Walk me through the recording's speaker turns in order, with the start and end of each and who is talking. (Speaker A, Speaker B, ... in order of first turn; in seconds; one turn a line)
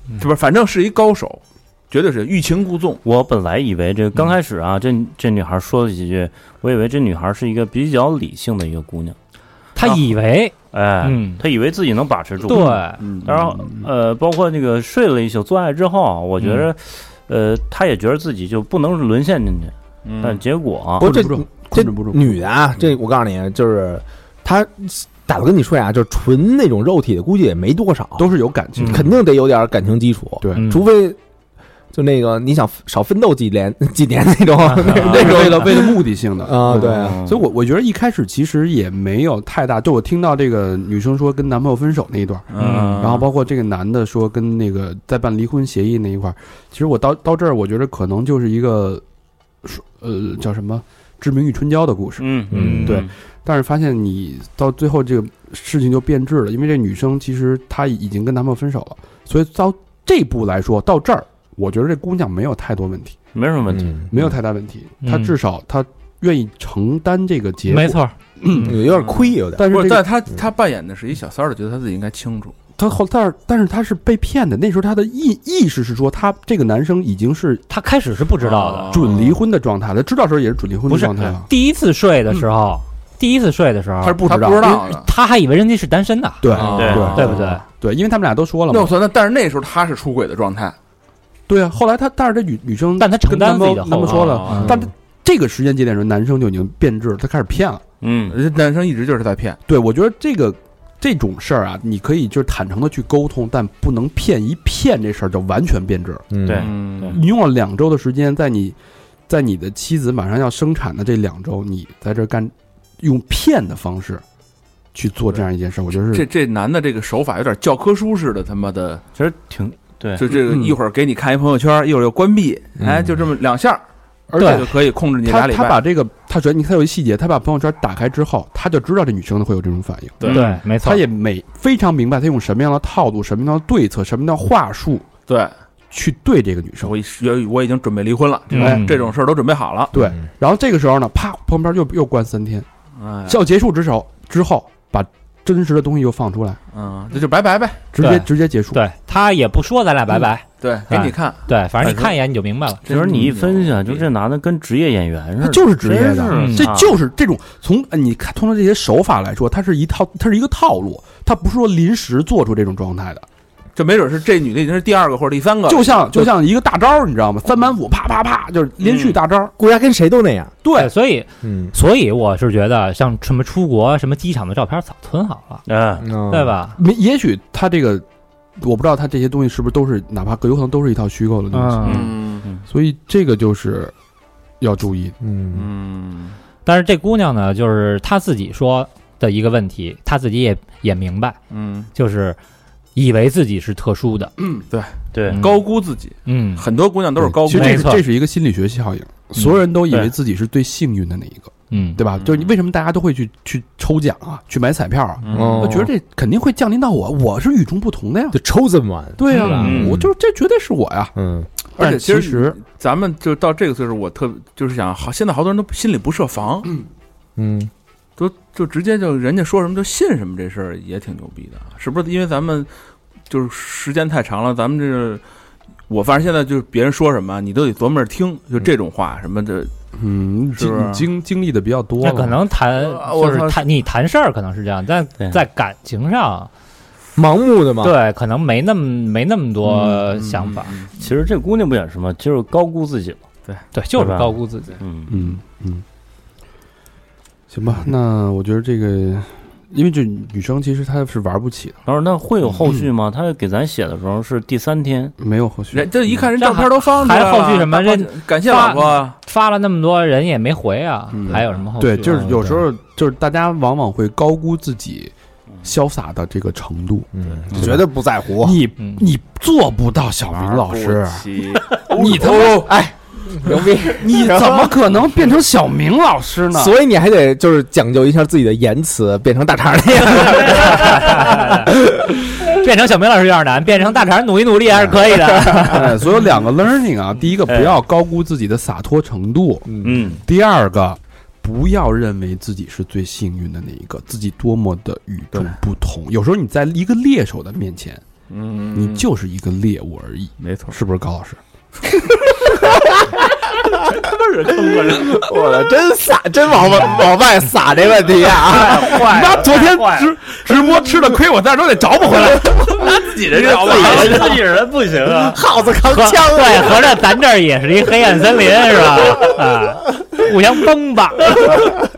Speaker A: 0.1-3.0
Speaker B: 3.0-9.2
Speaker C: 9.8-11.4
Speaker B: 10.7-21.0
Speaker C: 12.4-13.0
Speaker A: 13.0-13.5
Speaker C: 16.4-16.7
Speaker A: 20.0-20.4
Speaker D: 21.0-22.4
Speaker E: 21.0-31.2
Speaker D: 28.2-29.1
Speaker D: 30.4-30.7
Speaker C: 30.5-30.8
Speaker E: 31.9-37.2
Speaker C: 34.6-35.2
Speaker D: 34.9-42.5
Speaker B: 36.8-37.4
Speaker A: 42.5-43.2
Speaker C: 42.6-43.0
Speaker B: 42.6-43.1
Speaker D: 43.0-49.0
Speaker D: 49.6-63.1
Speaker B: 52.2-53.1
Speaker E: 52.5-53.0
Speaker B: 63.3-64.0
Speaker E: 63.7-64.1
Speaker D: 64.1-68.8
Speaker C: 65.0-65.3
Speaker C: 67.7-68.1
Speaker E: 68.5-69.7
Speaker A: 68.8-72.5
Speaker D: 69.6-70.1
Speaker D: 72.8-77.6
Speaker C: 77.7-78.9
Speaker A: 78.4-79.3
Speaker D: 78.9-81.5
Speaker C: 80.9-87.6
Speaker A: 84.0-85.1
Speaker D: 84.2-84.8
Speaker D: 86.4-88.9
Speaker E: 86.5-87.3
Speaker B: 86.7-87.3
Speaker A: 86.8-87.0
Speaker A: 88.7-90.7
Speaker D: 91.5-97.8
Speaker C: 93.0-94.7
Speaker A: 94.0-94.8
Speaker E: 94.6-94.9
Speaker B: 98.0-98.4
Speaker A: 98.3-99.6
Speaker D: 99.7-106.2
Speaker E: 106.3-106.7
Speaker B: 106.4-107.2
Speaker A: 106.5-107.3
Speaker D: 107.1-108.8
Speaker D: 109.3-114.2
Speaker D: 114.9-116.3
Speaker A: 116.1-119.0
Speaker B: 119.2-120.2
Speaker A: 120.2-123.8
Speaker D: 120.3-120.8
Speaker E: 122.8-123.2
Speaker D: 124.3-135.1
Speaker C: 124.4-124.6
Speaker A: 124.4-125.8
Speaker A: 130.2-130.6
Speaker C: 130.3-131.0
Speaker A: 135.3-135.5
Speaker D: 135.9-136.9
Speaker A: 136.8-139.9
Speaker C: 138.5-138.9
Speaker D: 138.5-138.9
Speaker D: 139.9-142.7
Speaker A: 143.0-143.4
Speaker D: 143.3-146.6
Speaker A: 146.7-147.8
Speaker D: 147.9-148.8
Speaker C: 148.0-152.8
Speaker A: 150.6-152.1
Speaker A: 152.8-154.1
Speaker B: 152.8-157.0
Speaker D: 155.4-163.2
Speaker C: 156.3-156.7
Speaker A: 163.8-166.1
Speaker D: 165.7-169.5
Speaker B: 168.8-169.2
Speaker E: 169.6-170.5
Speaker D: 170.6-170.9
Speaker C: 170.7-175.6
Speaker E: 171.4-171.7
Speaker B: 175.7-176.1
Speaker E: 176.0-176.6
Speaker C: 176.3-176.8
Speaker D: 176.8-178.0
Speaker D: 178.6-183.9
Speaker C: 181.5-182.0
Speaker A: 181.8-182.5
Speaker B: 181.8-182.6
Speaker D: 184.6-185.2
Speaker E: 185.2-185.7
Speaker A: 185.5-186.4
Speaker C: 186.6-191.4
Speaker A: 191.5-191.9
Speaker C: 191.9-192.4
Speaker C: 192.9-194.3
Speaker A: 194.4-198.0
Speaker B: 195.1-195.5
Speaker C: 195.3-195.6
Speaker C: 196.2-196.6
Speaker D: 197.2-208.4
Speaker C: 197.5-198.0
Speaker C: 201.7-202.0
Speaker A: 205.2-205.8
Speaker E: 205.3-205.9
Speaker E: 208.3-210.1
Speaker D: 209.2-211.1
Speaker B: 209.3-210.0
Speaker E: 211.2-211.5
Speaker D: 211.8-212.6
Speaker A: 211.8-216.8
Speaker E: 217.4-217.7
Speaker A: 218.2-222.7
Speaker A: 223.3-225.2
Speaker A: 225.9-229.7
Speaker D: 229.9-232.4
Speaker A: 230.5-231.1
Speaker C: 232.0-236.5
Speaker A: 232.7-233.7
Speaker E: 237.2-237.9
Speaker C: 237.8-240.7
Speaker A: 240.1-240.9
Speaker B: 240.9-243.2
Speaker C: 243.7-244.7
Speaker B: 243.9-245.3
Speaker D: 245.1-245.8
Speaker D: 247.5-251.8
Speaker B: 251.8-255.1
Speaker D: 252.6-252.9
Speaker D: 255.2-256.2
Speaker A: 255.7-259.1
Speaker C: 256.4-262.6
Speaker D: 261.1-267.9
Speaker E: 267.1-268.6
Speaker D: 268.4-271.3
Speaker C: 268.8-269.0
Speaker A: 270.3-272.7
Speaker D: 271.9-272.7
Speaker E: 272.0-274.8
Speaker D: 273.8-276.7
Speaker E: 276.5-281.9
Speaker C: 280.2-281.8
Speaker C: 282.3-285.9
Speaker D: 284.7-285.0
Speaker E: 285.3-285.6
Speaker D: 285.6-298.0
Speaker B: 287.5-287.8
Speaker E: 289.7-290.1
Speaker B: 289.8-290.2
Speaker A: 298.3-299.1
Speaker D: 298.7-301.4
Speaker A: 300.4-300.8
Speaker A: 303.7-305.3
Speaker E: 305.0-309.1
Speaker B: 308.4-310.1
Speaker D: 308.6-312.9
Speaker A: 312.7-314.4
Speaker E: 313.3-314.5
Speaker B: 313.7-315.4
Speaker E: 315.1-317.0
Speaker C: 315.8-321.7